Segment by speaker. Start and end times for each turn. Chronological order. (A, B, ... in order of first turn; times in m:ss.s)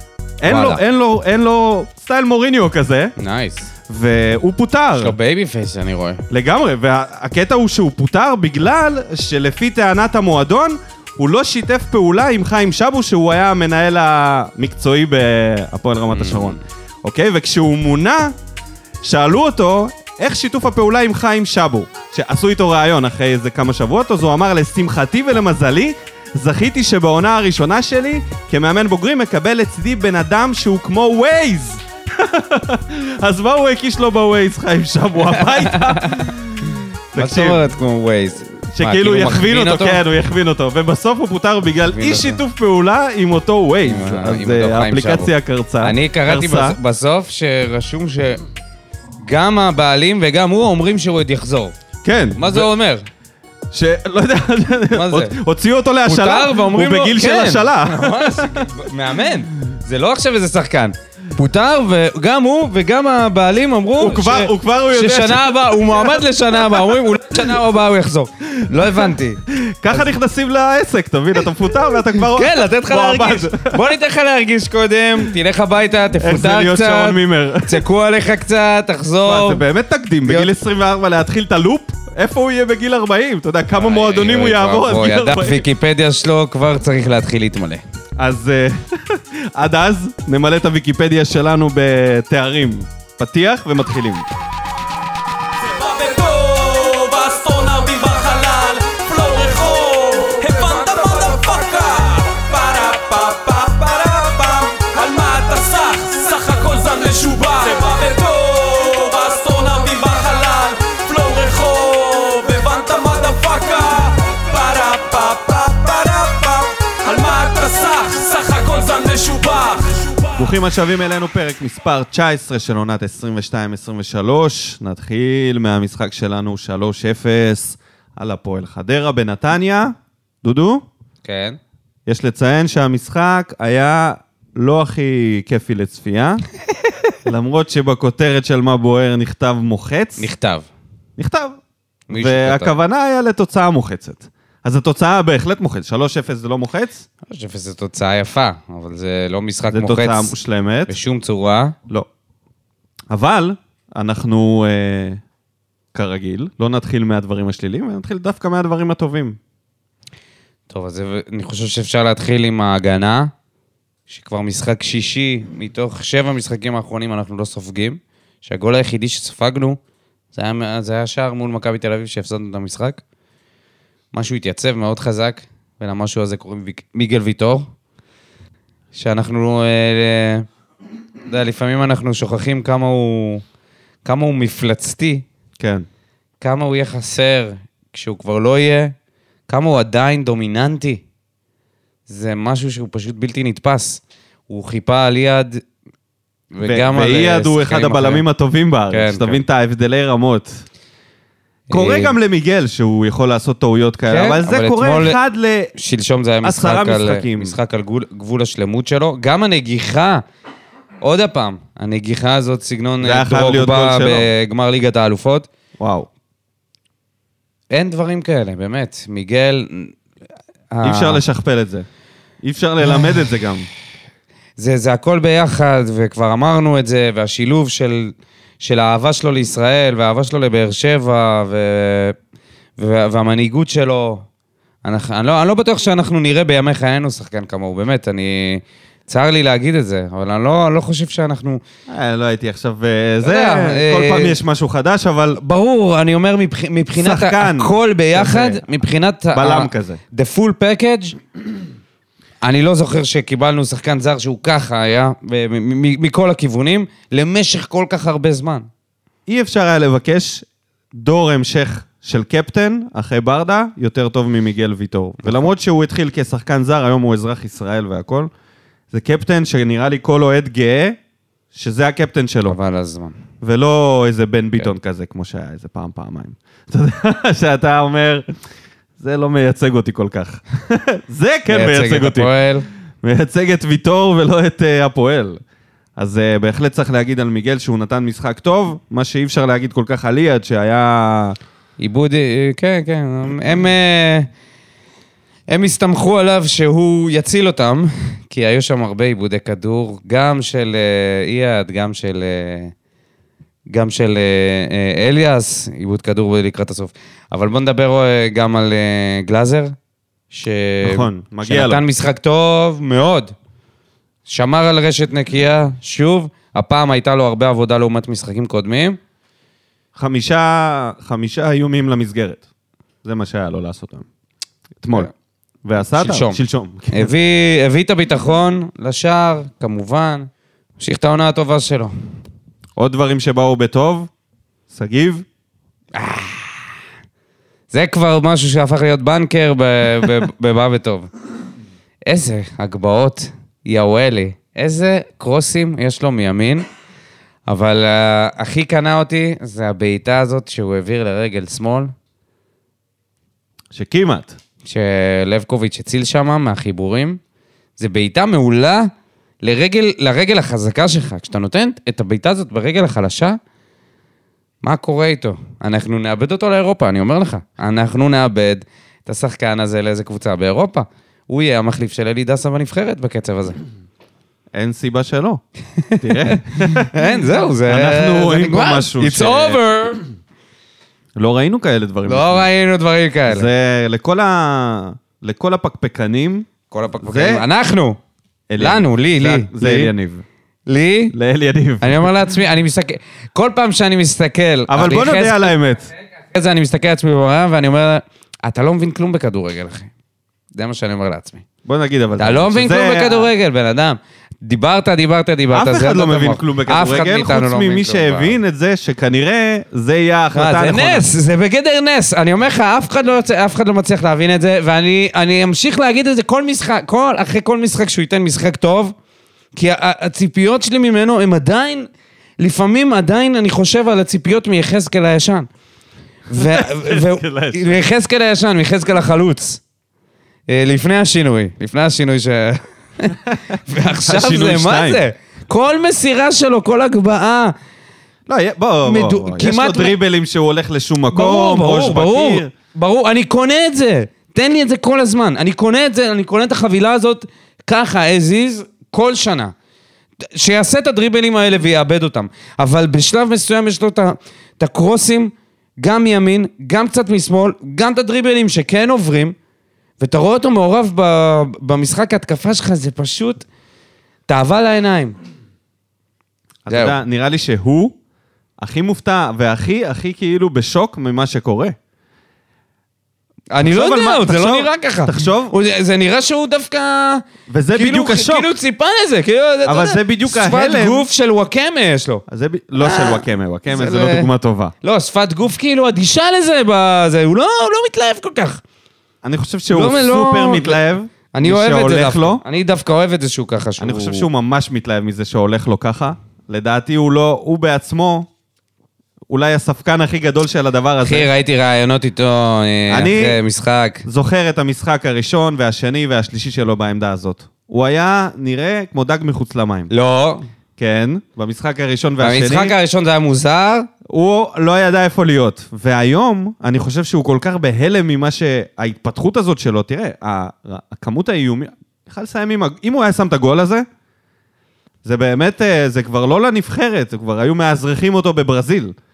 0:00.4-0:03.1 A
0:00.5-0:00.8 B
0:03.2-0:03.7 B
0:03.9-0:05.1 A
0:05.0-0:06.2 B
0:06.3-0:18.3 A
0:16.1-0:16.6 B
0:19.0-0:37.6 A
0:35.3-0:36.3 B
0:37.2-0:40.0 B
0:38.7-0:46.8 A
0:41.9-0:42.4 B
0:43.8-0:48.4 B
0:49.2-0:51.7 B
0:52.0-0:52.7 A
0:52.4-0:53.0 B
0:53.7-0:58.7 A
0:54.9-0:55.4 B
0:56.0-1:10.1 B
1:04.0-1:07.4 A
1:08.6-1:13.8 A
1:12.3-1:19.6 B
1:16.2-1:17.8 A
1:19.2-1:25.6 A
1:23.8-1:27.8 B
1:28.2-1:34.2 A
1:35.8-1:43.3 C
1:43.3-1:44.5 A
1:44.7-2:00.2 C
2:00.3-2:10.8 A
2:11.2-2:11.6 B
2:12.1-2:16.4 A
2:17.2-2:20.2 A
2:20.2-2:20.7 B
2:21.2-2:21.6 A
2:22.1-2:22.7 B
2:22.1-2:27.0 A
2:27.3-2:30.3 B
2:29.7-2:30.9 A
2:30.9-2:31.7 B
2:33.1-2:35.2 A
2:35.9-2:39.4 A
2:40.7-2:43.3 B
2:44.1-2:49.8 B
2:50.3-2:53.0 B
2:54.1-2:57.7 B
2:58.9-3:00.4 B
3:01.3-3:03.4 B
3:04.0-3:05.2 B
3:05.6-3:05.8 A
3:06.4-3:08.9 B
3:09.5-3:11.0 B
3:12.1-3:15.6 B
3:16.5-3:18.2 B
3:16.6-3:20.6 A
3:18.9-3:19.4 B
3:21.7-3:22.1 B
3:21.7-3:25.7 A
3:24.1-3:25.2 B
3:25.8-3:30.2 B
3:26.4-3:27.6 A
3:31.0-3:35.5 B
3:33.0-3:34.3 A
3:35.8-3:36.1 A
3:37.7-3:40.0 B
3:40.7-3:41.2 B
3:40.8-3:41.8 A
3:42.4-3:43.7 A
3:44.6-3:52.1 B
3:52.8-3:54.2 B
3:54.8-4:01.6 B
4:01.9-4:05.4 A
4:03.2-4:04.4 B
4:05.4-4:11.2 B
4:06.9-4:08.7 A
4:09.3-4:10.0 A
4:12.4-4:18.7 B
4:19.3-4:28.3 A
4:28.9-4:31.0 A
4:31.5-4:32.6 A
4:32.4-4:33.1 B
4:33.4-4:38.2 A
4:39.0-4:42.3 A
4:41.5-4:42.6 B
4:43.0-4:45.4 A
4:46.0-4:51.4 A
4:51.8-4:54.3 B
4:55.5-5:02.7 B
5:03.7-5:09.7 B
5:10.3-5:13.3 B
5:10.8-5:11.8 A
5:14.3-5:19.0 B
5:19.9-5:22.4 A
5:23.0-5:24.0 A
5:24.8-5:25.1 A
5:25.6-5:27.1 A
5:25.9-5:26.4 B
5:26.9-5:31.9 B
5:32.8-5:34.1 A
5:34.7-5:35.2 A
5:35.9-5:36.6 B
5:37.7-5:41.1 B
5:42.0-5:46.6 B
5:47.5-5:51.9 B
5:53.7-5:54.3 A
5:54.6-5:57.2 B
5:57.8-5:58.9 B
5:59.4-6:03.4 B
6:04.6-6:13.6 B
6:14.5-6:15.4 A
6:15.8-6:20.1 B
6:16.0-6:16.9 A
6:17.7-6:19.6 A
6:21.2-6:22.5 A
6:22.0-6:23.5 B
6:23.3-6:26.5 A
6:26.7-6:28.0 B
6:27.0-6:27.4 A
6:28.5-6:30.2 A
6:28.6-6:29.9 B
6:30.7-6:31.1 B
6:31.1-6:32.1 A
6:31.8-6:35.6 B
6:34.7-6:35.9 A
6:36.3-6:39.9 B
6:40.5-6:41.4 B
6:41.6-6:43.3 A
6:42.2-6:48.3 B
6:45.5-6:51.1 A
6:50.3-6:58.9 B
6:59.5-7:01.9 B
7:02.4-7:05.5 B
7:06.3-7:09.6 B
7:06.4-7:07.8 A
7:10.5-7:17.5 B
7:13.9-7:15.0 A
7:18.3-7:22.5 A
7:18.8-7:20.0 B
7:21.1-7:29.5 B
7:30.3-7:39.4 B
7:40.0-7:43.4 B
7:44.3-7:45.2 B
7:46.6-7:48.0 A
7:46.7-7:47.0 B
7:48.6-7:51.8 A
7:53.5-8:02.2 B
7:53.6-7:55.6 A
7:57.5-7:58.5 A
7:59.6-8:01.1 A
8:02.3-8:04.7 A
8:02.8-8:04.3 B
8:04.8-8:08.6 B
8:09.2-8:12.4 A
8:09.7-8:14.3 B
8:13.8-8:18.3 A
8:19.3-8:21.3 A
8:21.0-8:24.0 B
8:22.9-8:23.4 A
8:24.0-8:29.9 A
8:29.9-8:30.4 B
8:30.8-8:32.7 A
8:32.2-8:33.9 B
8:34.1-8:43.8 A
8:45.0-8:48.9 A